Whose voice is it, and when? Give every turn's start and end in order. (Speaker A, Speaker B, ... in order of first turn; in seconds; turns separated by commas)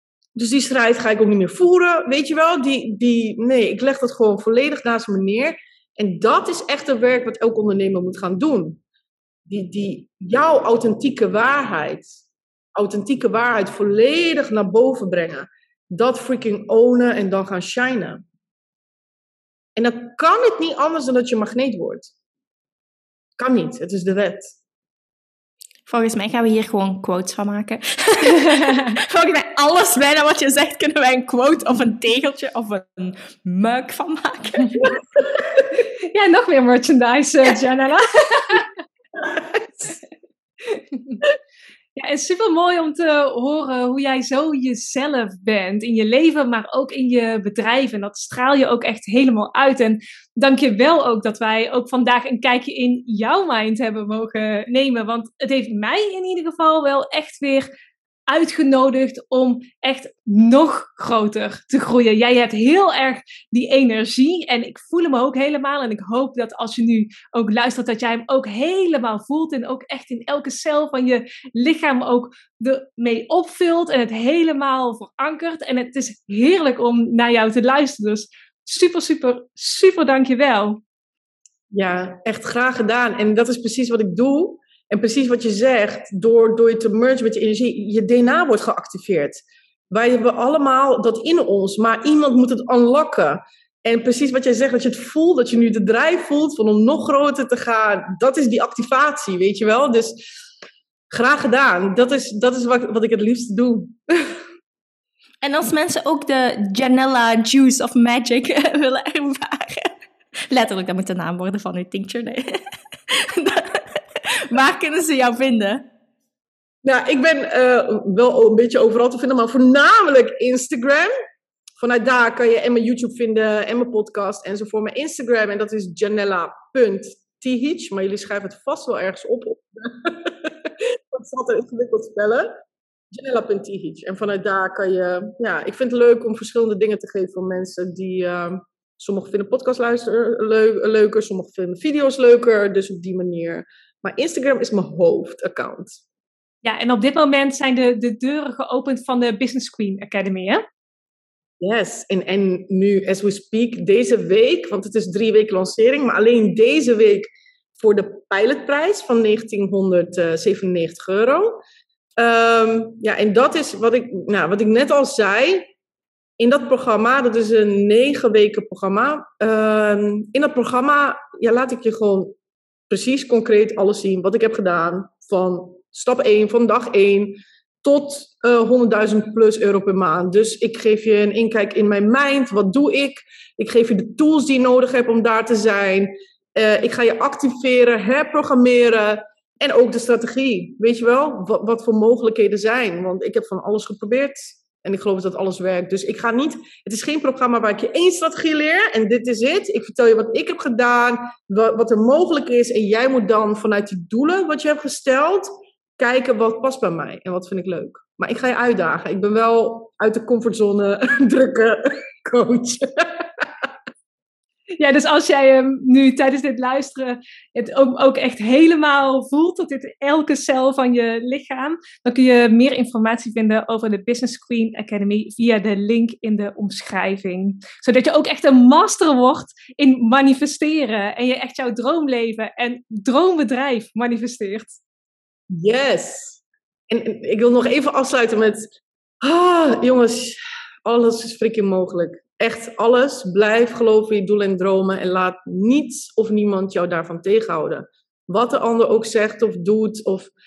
Speaker A: 0.3-8.8, Speaker A: 9.5-12.1, Speaker A: 12.8-18.2, Speaker A: 19.8-22.1, Speaker A: 23.4-24.5, Speaker B: 25.9-34.9, Speaker C: 28.3-28.9, Speaker C: 36.1-38.7, Speaker C: 41.9-57.7, Speaker C: 58.3-80.8, Speaker A: 81.7-100.2, Speaker A: 101.1-104.4, Speaker B: 105.4-109.9, Speaker B: 110.5-115.8, Speaker A: 116.8-121.1, Speaker A: 121.8-146.0, Speaker C: 146.6-150.6, Speaker A: 151.6-161.6, Speaker A: 162.2-165.7, Speaker A: 166.4-172.3, Speaker A: 172.9-213.7, Speaker C: 214.8-234.8, Speaker A: 235.5-238.7, Speaker A: 239.2-250.3